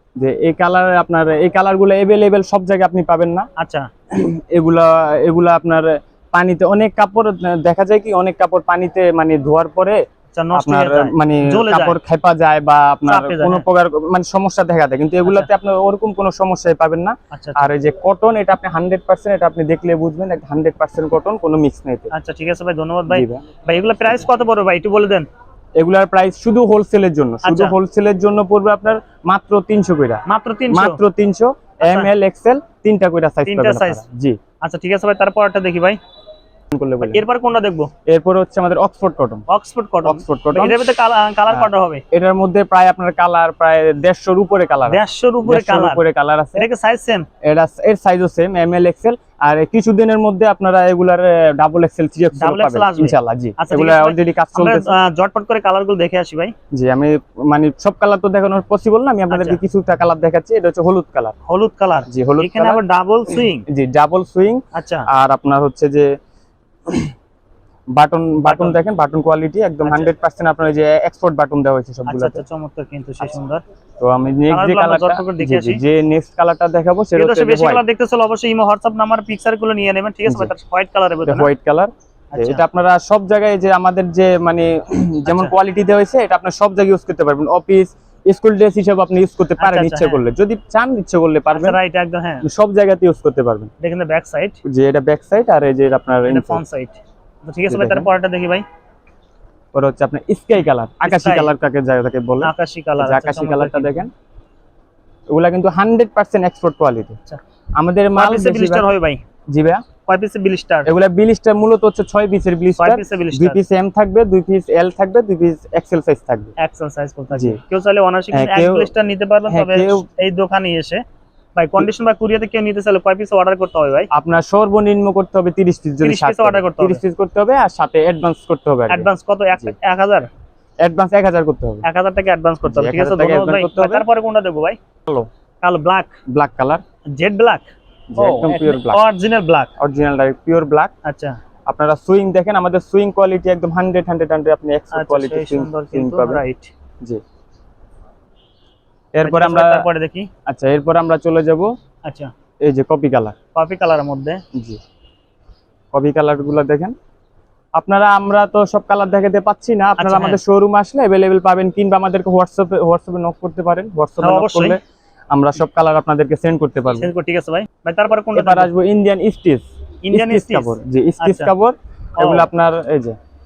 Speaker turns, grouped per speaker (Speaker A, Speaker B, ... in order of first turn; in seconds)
Speaker A: 0.2-3.5, 4.1-10.0, 10.5-22.1, 23.1-23.4, 25.8-34.4, 36.7-37.2, 38.1-39.5, 40.0-40.8, 41.5-46.7, 47.4-54.9, 56.7-61.3, 62.1-62.8, 63.3-66.1, 68.0-72.4, 74.0-77.8, 80.3-80.5, 81.2-91.8, 92.4-93.7, 94.7-96.6, 97.7-98.1, 99.7-104.1, 105.3-107.2, 107.8-108.9, 109.5-109.8, 110.8-116.5, 117.3-117.6, 118.3-118.9, 119.5-120.0, 124.1-129.8, 130.8-131.8, 132.6-134.1, 136.3-136.8, 138.1-139.0, 139.8-140.9, 141.7-146.4, 149.1-149.8, 150.5-151.7, 152.7-153.3, 154.5-154.8, 155.9-156.9, 157.8-164.8, 165.3-167.1, 168.3-173.2
Speaker B: 3.6-3.9, 10.3-12.0, 13.1-13.7, 15.2-15.5, 17.3-17.7, 22.1-25.3, 27.4-27.8, 30.3-31.0, 31.8-32.1, 33.5-34.0, 34.6-36.0, 37.0-37.9, 39.5-42.0, 44.9-47.3, 52.4-56.5, 59.3-59.6, 61.5-63.7, 64.7-65.1, 68.5-68.8, 69.8-70.1, 72.1-73.6, 74.5-75.8, 77.2-81.5, 82.3-82.6, 85.3-85.5, 89.6-90.2, 91.5-92.5, 93.8-94.6, 96.3-98.7, 101.0-101.5, 102.4-104.1, 108.2-109.2, 110.1-110.9, 112.8-113.6, 116.6-121.0, 121.6-124.1, 126.0-127.0, 128.9-130.3, 131.8-134.8, 135.6-136.1, 137.2-139.7, 141.0-141.4, 144.9-146.7, 149.2-150.3, 152.1-152.3, 153.6-154.4, 160.0-160.4, 164.2-164.8, 166.9-168.7, 170.1-171.5, 172.2-172.5